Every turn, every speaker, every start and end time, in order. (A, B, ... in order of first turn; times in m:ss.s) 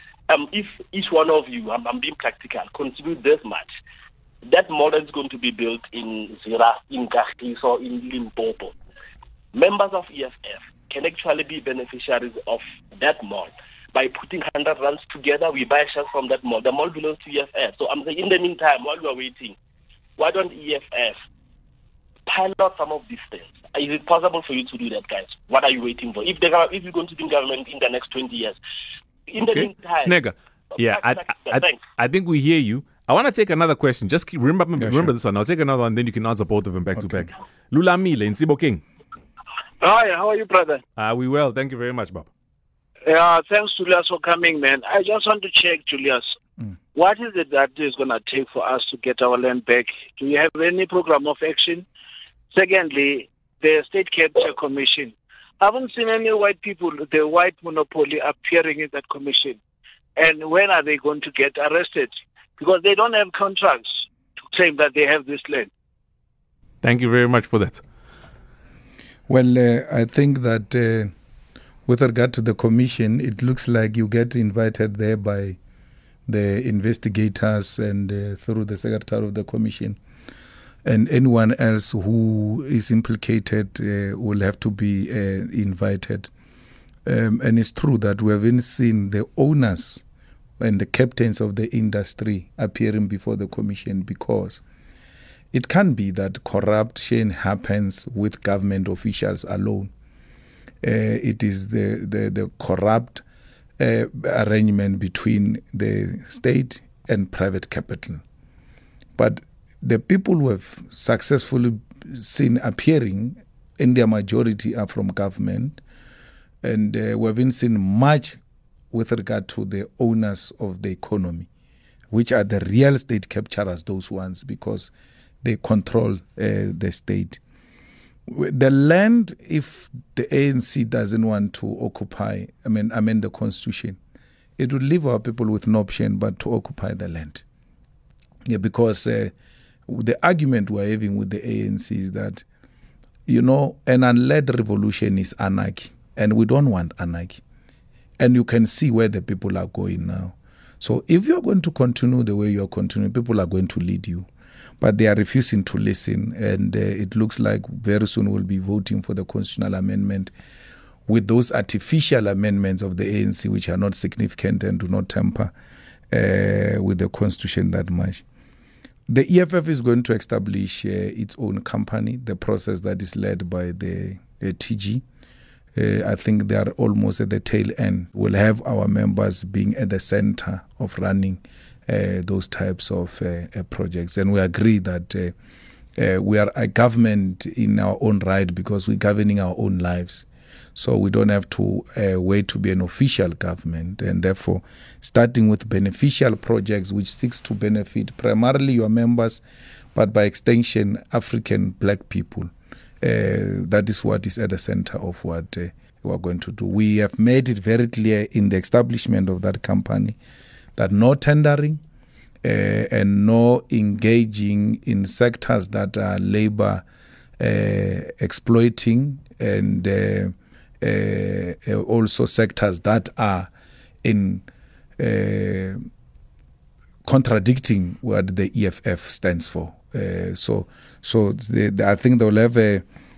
0:00.3-0:03.7 A
0:04.5-0:08.8 A
0:09.5-0:19.6 A
0:20.2-0:21.2 A
0:22.3-0:28.6 A
0:29.3-0:30.1 A
0:29.4-0:38.8 B
0:30.8-0:31.8 A
0:34.8-0:35.1 C
0:39.8-0:40.8 D
0:41.0-0:42.3 B
0:43.1-0:46.2 D
0:46.9-0:51.9 D
0:52.5-0:59.6 D
1:00.2-1:03.9 D
1:04.5-1:05.7 D
1:06.8-1:07.8 B
1:09.3-1:11.1 C
1:11.9-1:15.6 C
1:16.3-1:20.0 C
1:20.8-1:26.3 C
1:27.0-1:30.0 C
1:30.6-1:34.6 C
1:35.5-1:39.9 C
1:40.8-1:43.2 C
1:43.8-1:48.2 C
1:49.2-1:55.8 C
1:56.6-1:58.4 C
1:58.9-2:01.5 C
2:02.1-2:04.9 C
2:05.4-2:07.4 C
2:08.3-2:14.0 C
2:14.6-2:17.4 C
2:18.5-2:19.3 C
2:19.9-2:22.4 C
2:23.3-2:27.4 C
2:28.2-2:34.3 C
2:34.8-2:40.3 C
2:41.1-2:45.5 C
2:46.1-2:48.2 C
2:49.1-2:55.0 C
2:55.8-3:05.3 C
3:06.0-3:19.4 C
3:19.9-3:30.2 C
3:30.8-3:31.8 C
3:32.4-3:36.8 C
3:37.4-3:43.5 C
3:44.0-3:44.5 C
3:45.0-3:45.8 C
3:47.0-3:52.8 C